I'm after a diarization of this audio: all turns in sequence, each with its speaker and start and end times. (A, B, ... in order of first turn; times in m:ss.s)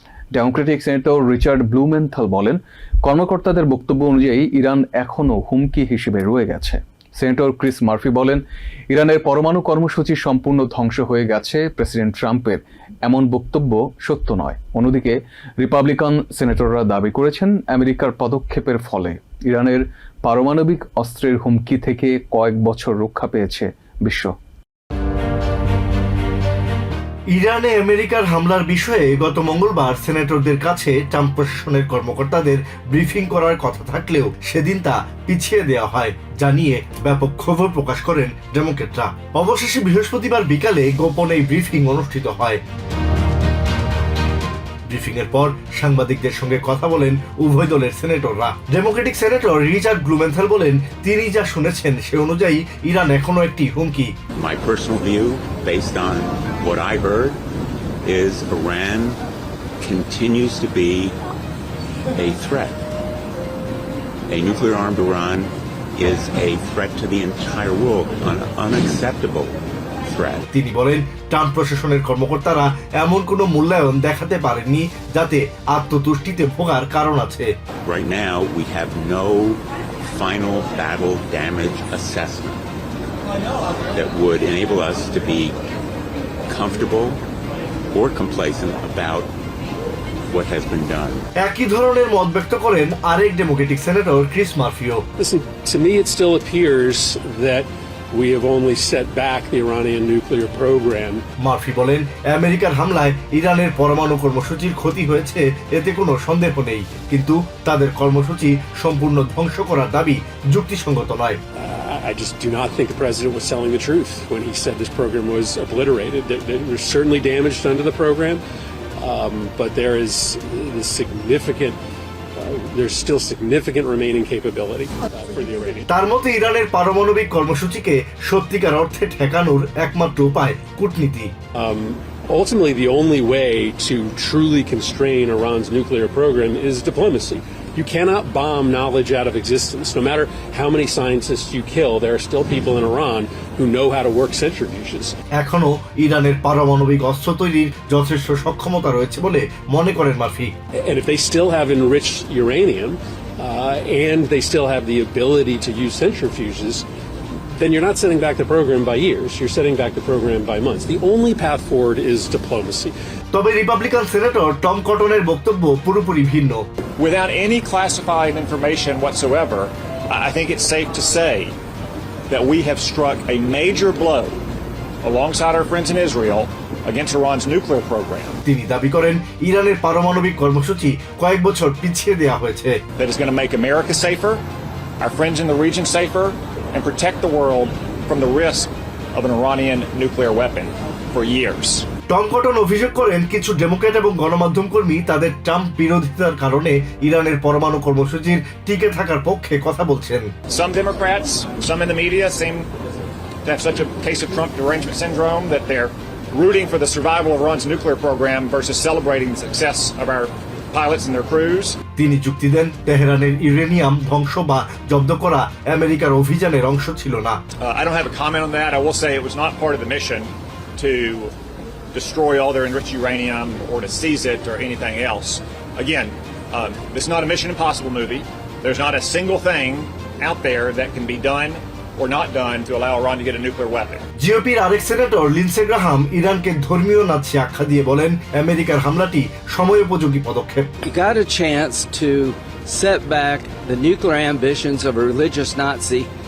0:00.3-0:24.3 A
0:27.3-0:42.6 B
0:44.9-0:54.1 B
0:54.4-0:57.4 C
0:58.0-0:59.2 C
0:59.8-1:01.2 C
1:02.1-1:02.8 C
1:04.3-1:10.4 C
1:10.5-1:17.5 B
1:17.8-1:22.6 C
1:23.9-1:25.6 C
1:26.5-1:27.2 C
1:27.9-1:29.3 C
1:30.3-1:31.2 C
1:31.4-1:35.0 B
1:35.2-1:41.2 D
1:41.4-1:51.4 B
1:51.6-1:58.4 D
1:59.0-2:01.8 D
2:02.4-2:05.9 D
2:05.9-2:11.3 B
2:11.6-2:25.2 D
2:25.3-2:30.5 B
2:30.8-2:36.8 D
2:37.5-2:42.9 D
2:43.3-2:46.7 B
2:47.0-2:51.5 E
2:52.3-2:54.4 E
2:55.0-2:58.4 E
2:58.4-3:02.8 B
3:03.0-3:04.4 E
3:05.0-3:11.9 E
3:12.1-3:20.3 B
3:20.5-3:22.7 E
3:23.4-3:31.8 E
3:32.0-3:37.4 B
3:37.6-3:41.3 E
3:41.9-3:54.0 E
3:54.2-4:00.7 B
4:00.8-4:06.1 F